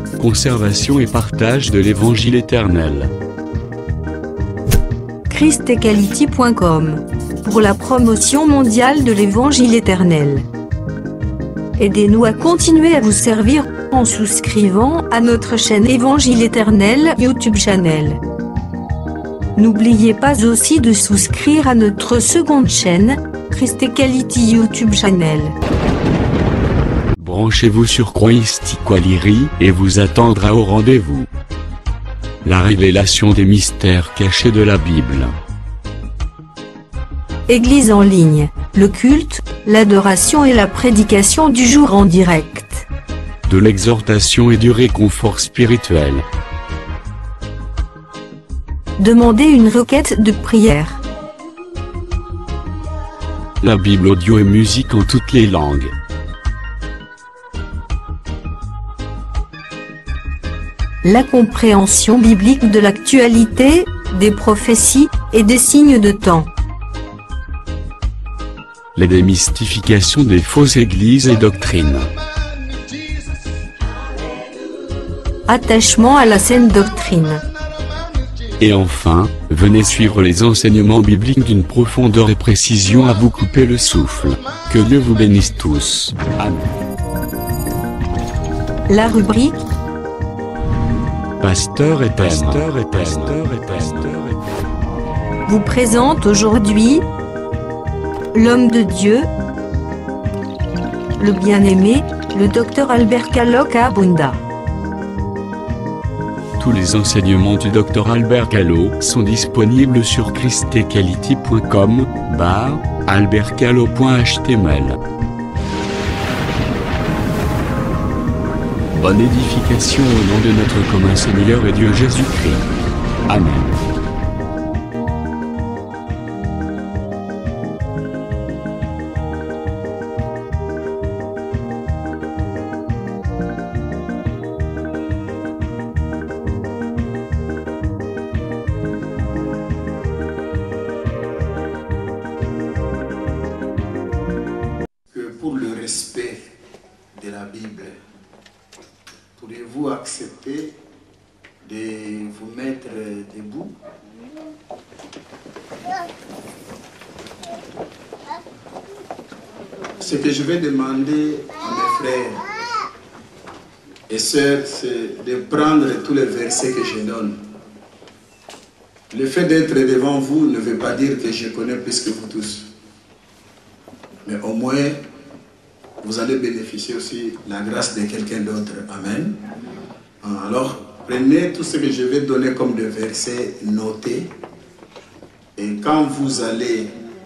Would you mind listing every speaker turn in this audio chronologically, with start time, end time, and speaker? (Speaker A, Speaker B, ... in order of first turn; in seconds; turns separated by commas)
Speaker A: 0.2-3.1, Speaker B: 5.3-10.4, Speaker B: 11.8-18.2, Speaker B: 19.6-25.5, Speaker A: 27.1-31.3, Speaker A: 32.4-35.3, Speaker B: 37.5-42.9, Speaker A: 43.4-46.2, Speaker B: 49.0-51.0, Speaker A: 53.6-55.9, Speaker B: 61.0-66.5, Speaker A: 68.9-72.1, Speaker B: 75.5-77.4, Speaker A: 78.6-86.7, Speaker B: 88.9-89.6, Speaker A: 91.4-94.4, Speaker B: 95.5-97.0, Speaker B: 98.3-99.3, Speaker B: 101.2-104.4, Speaker A: 106.6-115.0, Speaker A: 118.9-122.7, Speaker A: 123.3-123.8, Speaker C: 145.1-146.5, Speaker C: 147.1-147.9, Speaker C: 149.4-150.7, Speaker C: 151.6-153.8, Speaker C: 160.0-162.4, Speaker C: 164.1-167.4, Speaker C: 169.1-172.7, Speaker C: 174.2-175.0, Speaker C: 176.0-179.4, Speaker C: 180.2-184.3, Speaker C: 185.6-186.9